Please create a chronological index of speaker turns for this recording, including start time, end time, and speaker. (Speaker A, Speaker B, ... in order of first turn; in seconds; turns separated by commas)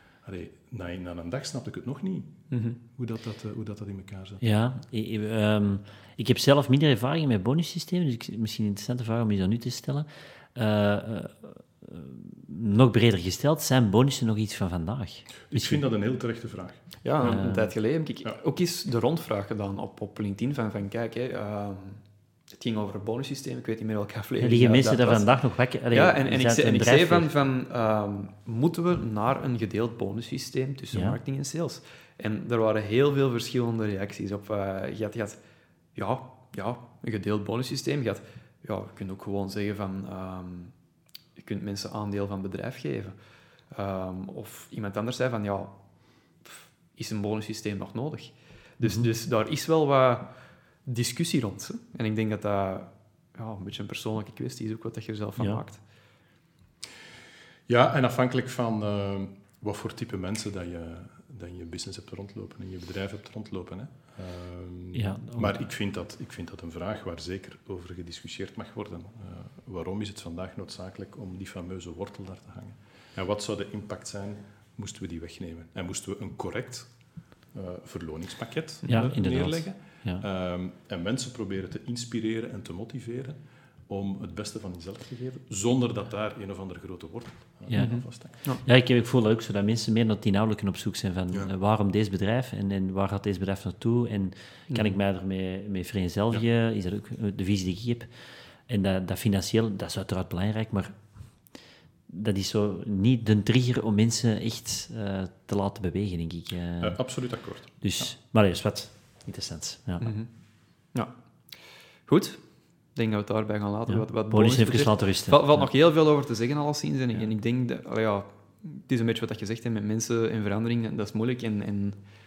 Speaker A: 0.2-4.4, Speaker B: 2.5-2.8, Speaker C: 4.4-15.8, Speaker A: 15.4-16.9, Speaker B: 17.0-25.3, Speaker C: 17.2-17.7, Speaker C: 24.4-27.3, Speaker B: 25.9-35.4, Speaker C: 30.9-31.2, Speaker B: 36.0-40.7, Speaker B: 41.4-43.1, Speaker B: 43.7-45.7, Speaker B: 46.4-50.3, Speaker C: 48.8-49.1, Speaker B: 50.9-55.8, Speaker A: 57.7-76.9, Speaker C: 64.9-65.6, Speaker A: 77.5-88.4, Speaker C: 78.9-80.2, Speaker C: 87.7-98.1, Speaker B: 87.8-88.6, Speaker B: 94.7-95.0, Speaker C: 98.7-101.0, Speaker C: 102.1-110.1, Speaker A: 106.8-108.1, Speaker B: 110.0-110.3, Speaker B: 110.9-112.4, Speaker B: 112.9-122.0, Speaker C: 113.9-115.4